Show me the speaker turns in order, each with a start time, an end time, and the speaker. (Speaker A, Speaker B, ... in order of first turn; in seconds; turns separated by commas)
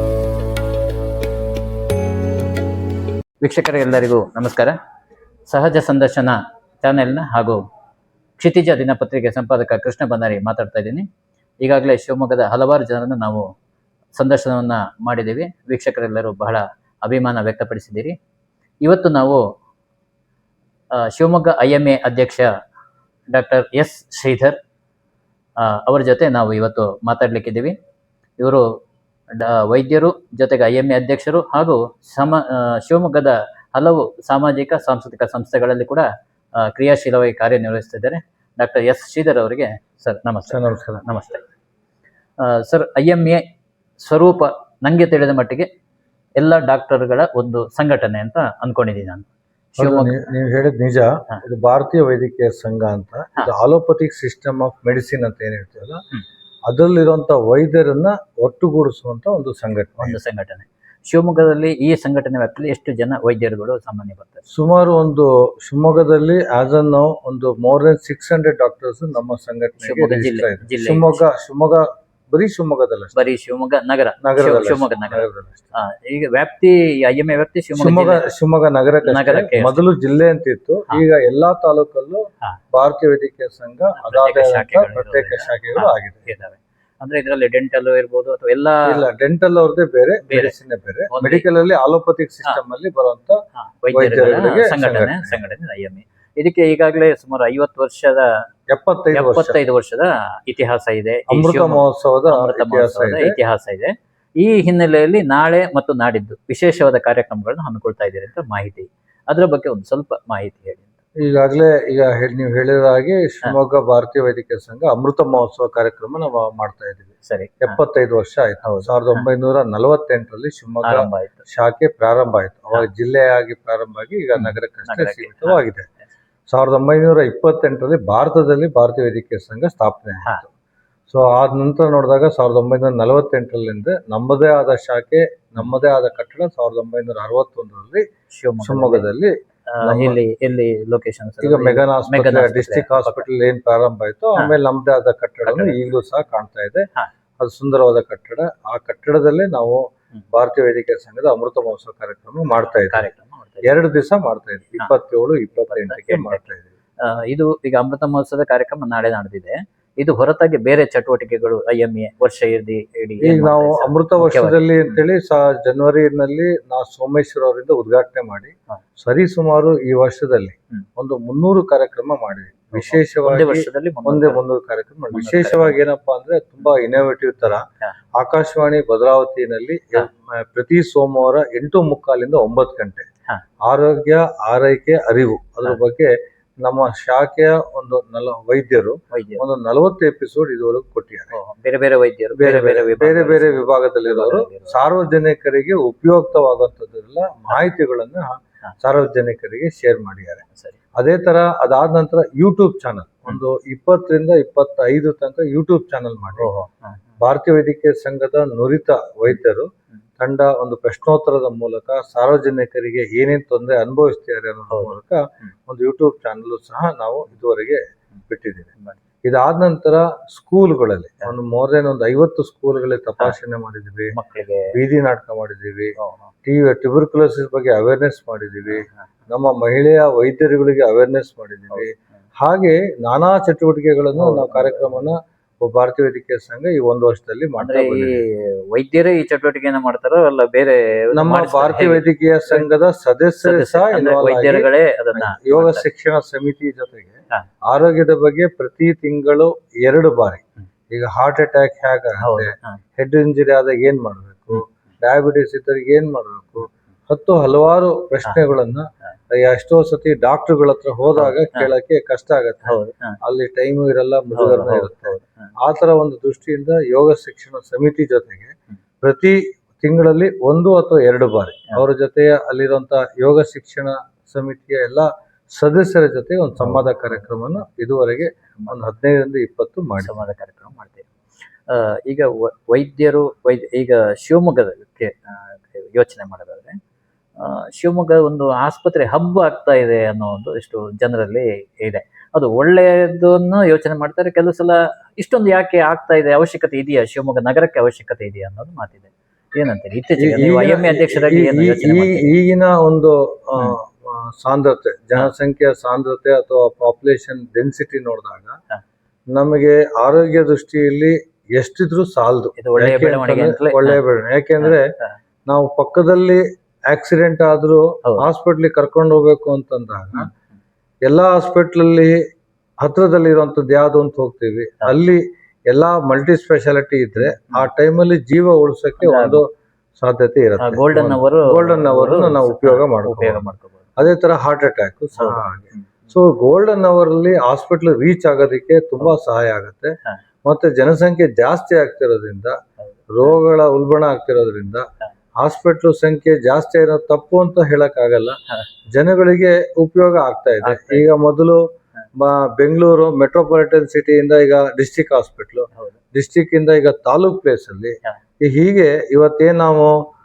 Speaker A: 3.4-4.7, Speaker A: 5.5-7.6, Speaker A: 8.4-11.1, Speaker A: 11.6-13.4, Speaker A: 14.2-18.1, Speaker A: 18.8-19.4, Speaker A: 21.1-22.4, Speaker A: 23.3-24.6, Speaker A: 25.6-27.7, Speaker A: 29.3-36.0, Speaker A: 36.7-41.4, Speaker B: 40.5-41.0, Speaker A: 42.4-43.4, Speaker A: 44.0-45.7, Speaker A: 46.4-50.2, Speaker B: 49.8-56.0, Speaker B: 56.7-60.2, Speaker A: 60.0-64.4, Speaker B: 64.5-73.1, Speaker A: 69.8-71.2, Speaker A: 73.1-78.3, Speaker B: 74.2-75.7, Speaker B: 77.7-82.2, Speaker A: 79.0-79.9, Speaker B: 82.7-86.3, Speaker A: 84.0-89.0, Speaker B: 88.8-93.4, Speaker A: 90.3-90.5, Speaker A: 91.1-91.5, Speaker A: 93.8-98.2, Speaker B: 93.9-95.4, Speaker B: 98.7-99.6, Speaker A: 99.1-111.0, Speaker B: 101.3-103.3, Speaker B: 111.2-117.1, Speaker A: 117.2-117.8, Speaker B: 117.6-125.9, Speaker A: 118.6-119.3, Speaker A: 120.8-121.5, Speaker A: 124.3-125.6, Speaker B: 126.5-130.5, Speaker B: 131.1-138.0, Speaker A: 138.3-139.1, Speaker B: 138.6-140.2, Speaker A: 139.7-143.3, Speaker B: 141.4-146.8, Speaker A: 145.4-145.8, Speaker B: 147.4-153.1, Speaker A: 152.8-153.7, Speaker B: 153.6-156.7, Speaker A: 155.6-156.4, Speaker A: 157.1-165.0, Speaker B: 163.2-177.6, Speaker A: 172.7-174.4, Speaker A: 175.1-175.8, Speaker B: 178.2-183.1, Speaker B: 183.7-191.3, Speaker A: 189.1-189.4, Speaker A: 191.3-194.8, Speaker B: 192.3-200.4, Speaker B: 201.0-206.5, Speaker A: 206.4-207.0, Speaker B: 207.2-209.7, Speaker B: 210.2-218.7, Speaker B: 219.2-224.1, Speaker A: 224.1-224.7, Speaker B: 224.7-238.2, Speaker A: 226.0-226.3, Speaker A: 228.7-228.9, Speaker A: 234.1-235.1, Speaker A: 237.6-242.7, Speaker B: 241.1-280.2, Speaker A: 243.4-245.8, Speaker A: 252.2-252.8, Speaker A: 261.1-261.7, Speaker A: 262.6-263.2, Speaker A: 264.3-265.5, Speaker A: 276.6-277.3, Speaker A: 278.5-278.8, Speaker A: 280.0-281.1, Speaker A: 281.7-286.8, Speaker A: 287.4-302.3, Speaker B: 300.2-308.5, Speaker B: 309.3-314.9, Speaker A: 312.6-314.0, Speaker A: 314.6-315.1, Speaker B: 315.5-320.3, Speaker B: 321.1-322.2, Speaker B: 322.8-329.4, Speaker A: 327.2-327.6, Speaker A: 329.0-329.4, Speaker B: 330.0-333.4, Speaker A: 330.6-333.9, Speaker B: 334.0-339.9, Speaker A: 335.1-336.1, Speaker B: 340.4-342.6, Speaker A: 342.8-343.4, Speaker B: 343.1-344.9, Speaker B: 345.4-348.4, Speaker B: 348.9-351.6, Speaker A: 350.6-351.1, Speaker B: 352.2-360.0